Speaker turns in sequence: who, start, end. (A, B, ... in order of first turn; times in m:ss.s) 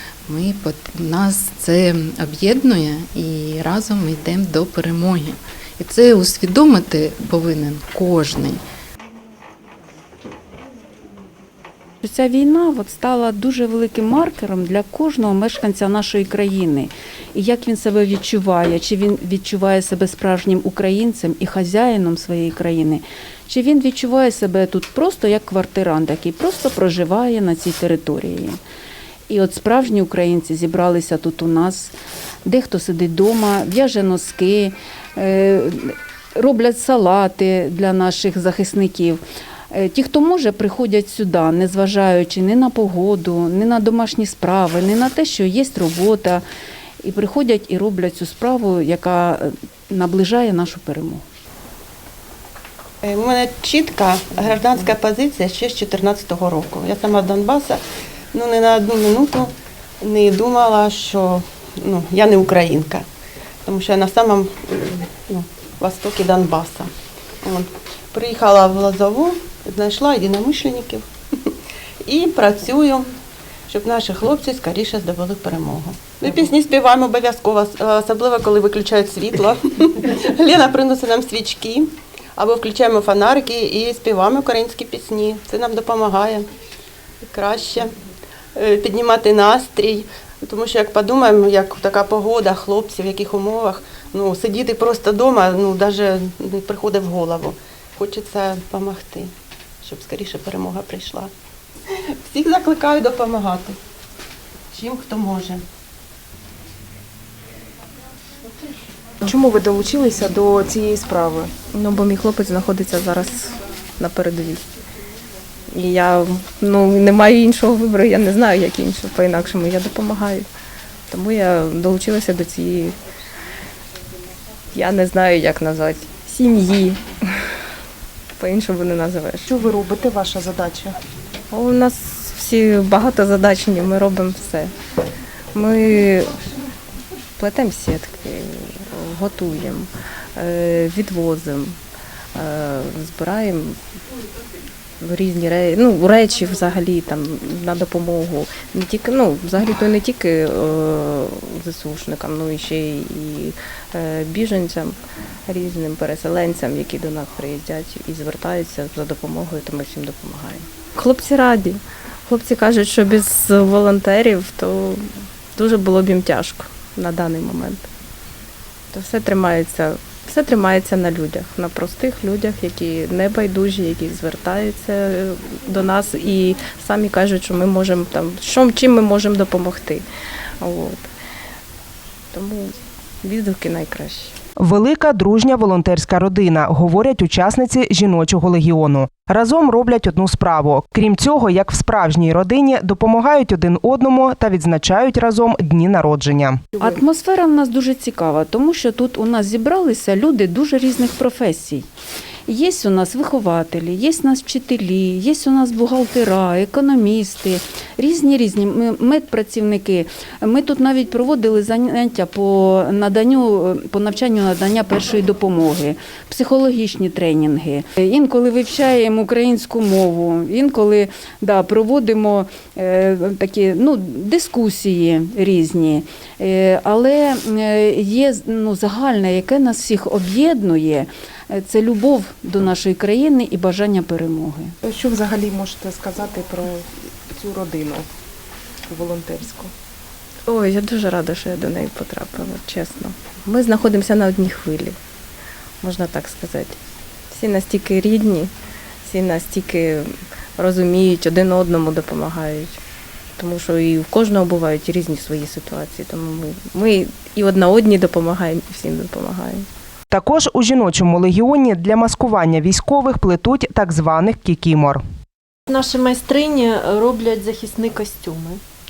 0:00.3-0:08.6 A
0:12.0-0:28.6 B
0:29.3-0:32.0 B
0:32.5-0:46.4 B
0:47.0-0:51.2 B
0:53.0-0:57.8 C
0:58.3-1:03.1 C
1:03.6-1:06.9 C
1:07.4-1:11.5 C
1:12.0-1:13.1 C
1:13.7-1:26.5 C
1:27.2-1:27.9 C
1:28.6-1:41.3 C
1:42.2-1:43.8 C
1:44.7-1:45.6 C
1:49.2-1:51.5 D
1:51.7-1:54.6 E
1:55.7-2:00.5 E
2:01.1-2:03.0 E
2:04.7-2:07.0 E
2:08.4-2:09.5 E
2:09.5-2:11.0 D
2:11.5-2:14.7 E
2:15.5-2:16.4 E
2:17.4-2:21.8 E
2:22.4-2:23.8 E
2:25.0-2:35.0 E
2:35.5-2:47.8 E
2:48.9-3:00.0 E
3:00.6-3:01.1 E
3:02.3-3:04.4 E
3:04.6-3:16.6 F
3:16.8-3:21.9 B
3:22.5-3:54.7 B
3:54.8-3:58.1 D
3:58.9-3:59.7 D
4:00.5-4:05.0 E
4:05.8-4:06.8 E
4:07.3-4:08.5 E
4:09.0-4:12.8 E
4:13.4-4:19.7 E
4:20.1-4:25.0 F
4:25.7-4:28.6 G